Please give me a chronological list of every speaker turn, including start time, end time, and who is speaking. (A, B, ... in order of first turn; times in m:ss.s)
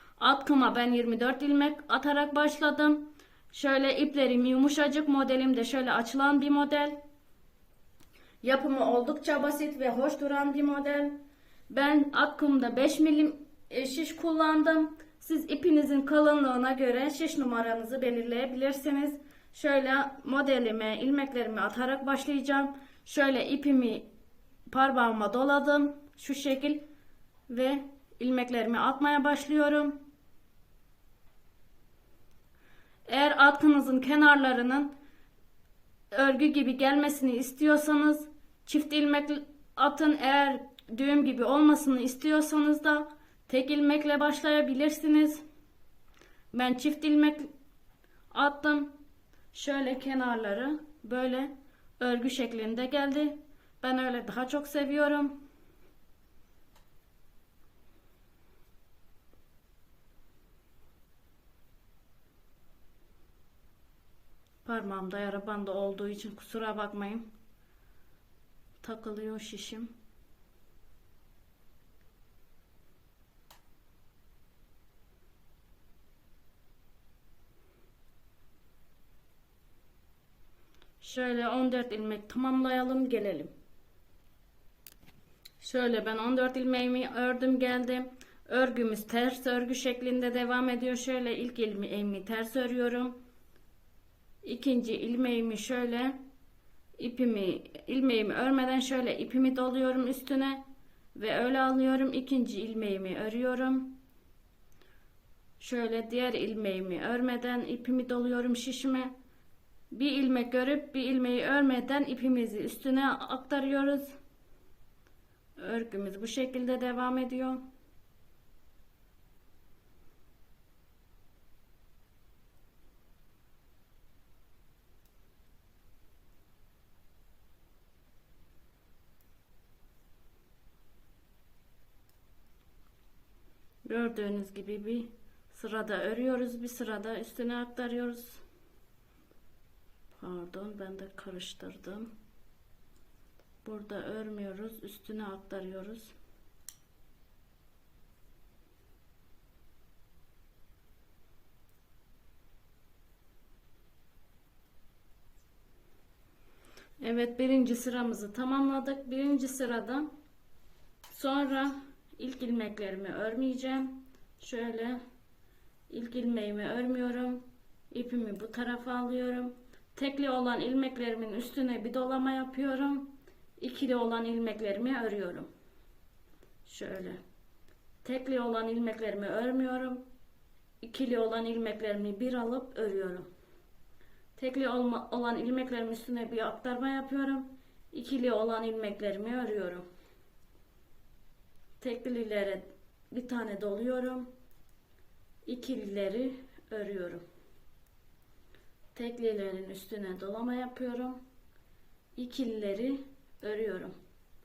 0:00.2-0:07.0 A
0:08.4-0:24.0 A
0:24.7-0:26.8 A
0:27.5-0:30.0 A
0:33.1-0:34.9 A
0:36.1-0:45.4 A
0:46.5-0:47.5 A
0:48.3-0:48.9 A
0:49.5-0:55.4 A
1:04.6-1:07.3 A
1:08.8-1:09.9 A
1:21.0-1:23.5 A
1:25.6-1:33.2 A
1:34.4-1:36.2 A
1:37.0-1:40.6 A
1:41.1-1:44.0 A
1:45.6-1:49.1 A
1:49.9-1:54.2 A
1:55.6-1:57.6 A
2:13.8-2:18.4 A
2:20.2-2:22.1 A
2:23.6-2:26.1 A
2:37.0-2:40.1 A
2:41.1-2:45.0 A
2:45.9-2:55.5 A
2:56.6-2:57.2 A
2:58.0-3:00.0 A
3:00.8-3:03.3 A
3:04.4-3:09.8 A
3:11.8-3:14.3 A
3:15.4-3:17.2 A
3:18.9-3:21.2 A
3:22.2-3:24.0 A